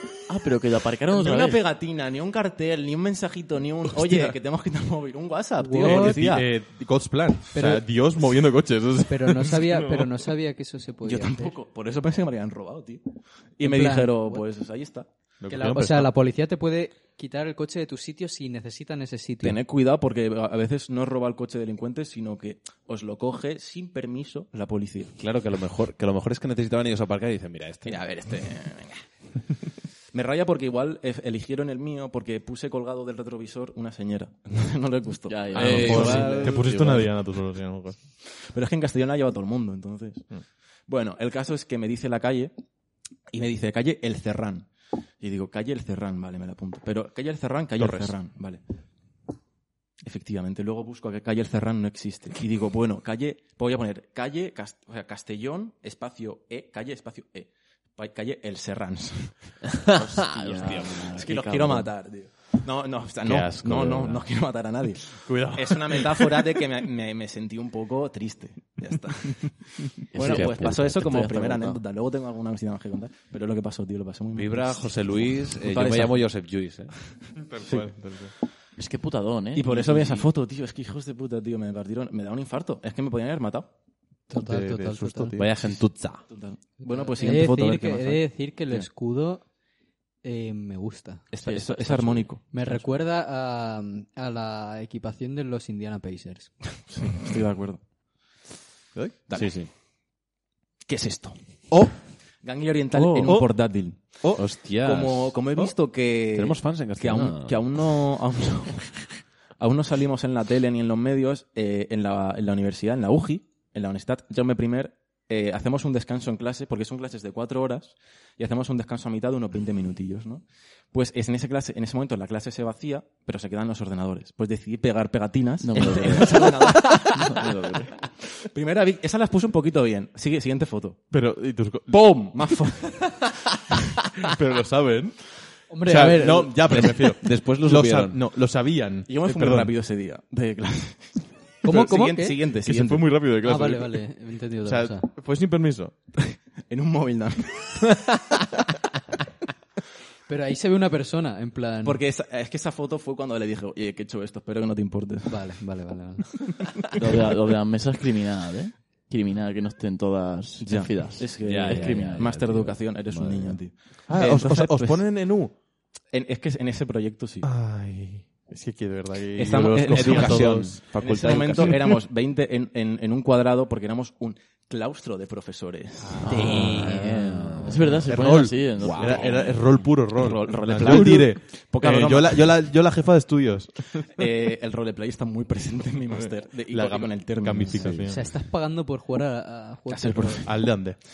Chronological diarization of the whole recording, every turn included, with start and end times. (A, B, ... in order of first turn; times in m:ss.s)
0:00.3-0:01.6 A
0:01.1-0:06.5 B
0:04.0-0:04.3 C
0:05.6-0:06.2 D
0:05.7-0:10.1 C
0:07.5-0:07.9 D
0:09.1-0:11.5 D
0:11.0-0:13.0 B
0:13.6-0:15.1 B
0:13.6-0:14.4 D
0:15.4-0:16.1 C
0:15.5-0:19.6 D
0:19.4-0:25.1 B
0:25.2-0:28.0 E
0:27.9-0:29.0 B
0:30.1-0:36.4 B
0:35.3-0:37.1 A
0:35.5-0:38.0 C
0:35.6-0:36.8 E
0:38.4-0:40.3 B
0:40.9-0:42.5 B
0:43.3-0:44.7 B
0:45.2-0:48.6 B
0:47.8-0:48.2 C
0:50.0-0:59.6 B
0:59.9-1:01.0 E
1:00.0-1:01.9 A
1:01.1-1:16.3 B
1:03.3-1:04.2 E
1:05.2-1:06.4 C
1:10.1-1:11.8 A
1:10.2-1:11.1 E
1:14.4-1:17.0 E
1:17.2-1:17.9 B
1:17.4-1:18.3 C
1:18.8-1:20.3 A
1:19.6-1:23.7 B
1:24.3-1:25.3 D
1:24.3-1:25.8 C
1:25.4-1:26.3 E
1:26.3-1:28.9 B
1:26.8-1:29.4 D
1:30.2-1:31.2 D
1:31.3-1:32.6 B
1:31.4-1:32.3 A
1:32.5-1:36.6 D
1:36.9-1:37.8 B
1:39.3-1:39.6 B
1:39.3-1:39.7 E
1:40.8-1:41.9 B
1:42.4-2:07.7 B
1:43.2-1:43.5 C
1:44.4-1:45.6 E
1:46.3-1:47.7 E
2:05.6-2:07.8 A
2:08.5-2:11.0 B
2:11.1-2:12.4 C
2:11.9-2:13.3 B
2:14.2-2:19.7 C
2:15.7-2:16.6 D
2:16.7-2:18.2 E
2:19.1-2:23.3 B
2:21.6-2:22.4 D
2:22.6-2:24.0 C
2:23.4-2:25.0 D
2:24.6-2:26.0 C
2:26.2-2:27.8 B
2:30.3-2:32.0 D
2:31.8-2:35.6 B
2:35.3-2:36.3 D
2:37.0-2:42.2 A
2:40.6-2:45.2 B
2:41.4-2:43.6 E
2:44.1-2:45.6 C
2:46.1-2:47.5 B
2:47.4-2:50.9 C
2:49.4-2:56.4 B
2:49.8-2:51.8 E
2:51.6-2:51.8 C
2:56.0-2:57.0 C
2:56.3-2:57.7 D
2:56.3-2:56.6 A
2:56.3-2:58.1 E
2:57.7-2:59.6 A
2:58.1-3:04.1 C
2:58.8-2:59.3 E
2:59.2-3:02.6 B
3:04.1-3:08.0 B
3:06.1-3:08.3 C
3:07.6-3:08.2 E
3:08.1-3:10.4 D
3:09.9-3:10.8 B
3:10.3-3:11.0 C